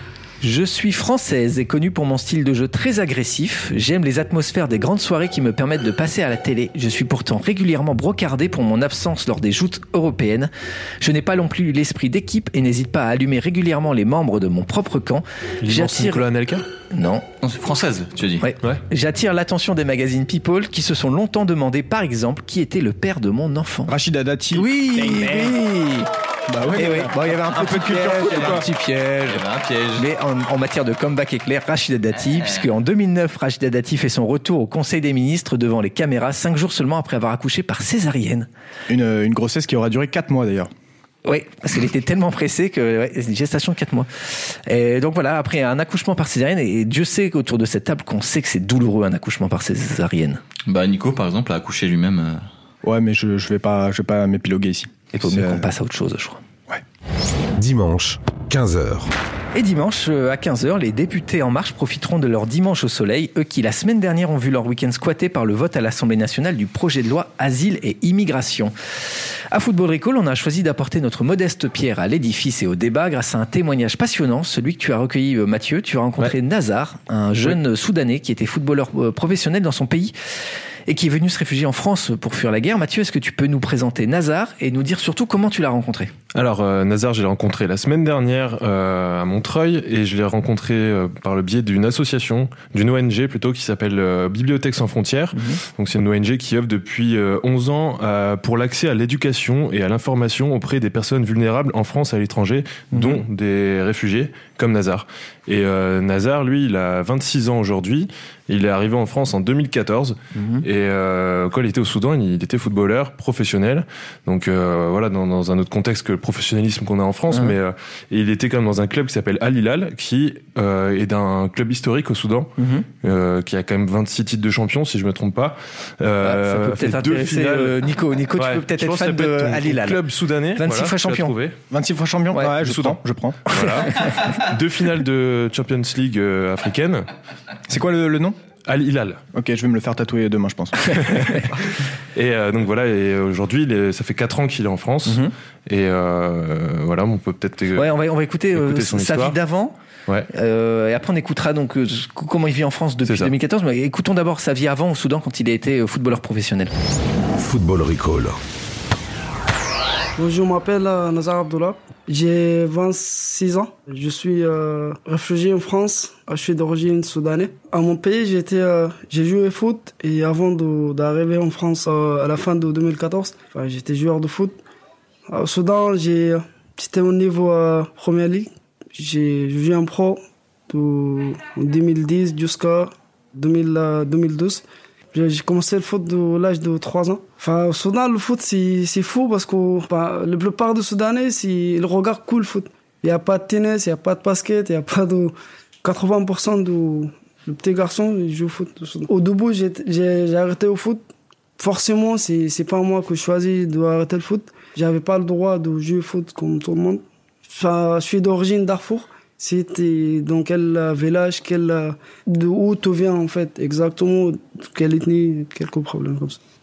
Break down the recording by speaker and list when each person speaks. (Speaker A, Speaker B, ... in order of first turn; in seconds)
Speaker A: 0.4-16.3, 16.9-17.2, 18.4-23.9, 24.5-26.1, 26.7-29.4, 29.9-38.5, 41.2-50.4, 55.1-56.4, 59.5-68.7, 69.5-80.1, 80.9-86.1, 95.3-95.6, 102.9-103.2, 110.3-110.6, 117.3-117.6, 122.6-122.9, 126.2-130.0, 130.5-131.3, 132.3-132.6, 133.5-134.3, 145.1-145.3, 147.8-149.7, 150.3-156.7
Speaker B: 15.6-16.6, 86.3-127.8, 128.4-131.6, 132.6-137.1, 138.7-139.2, 140.9-147.9, 148.5-149.3, 153.1-153.3
Speaker C: 17.4-18.5, 29.2-30.1, 32.3-32.6, 50.7-52.5
Speaker D: 23.9-25.6, 26.5-28.7, 38.9-40.7, 52.8-55.6, 131.7-133.4, 137.7-138.3, 139.3-141.4
Speaker E: 57.6-59.1, 157.4-158.4
Speaker F: 160.2-174.6, 175.3-201.0, 201.6-216.4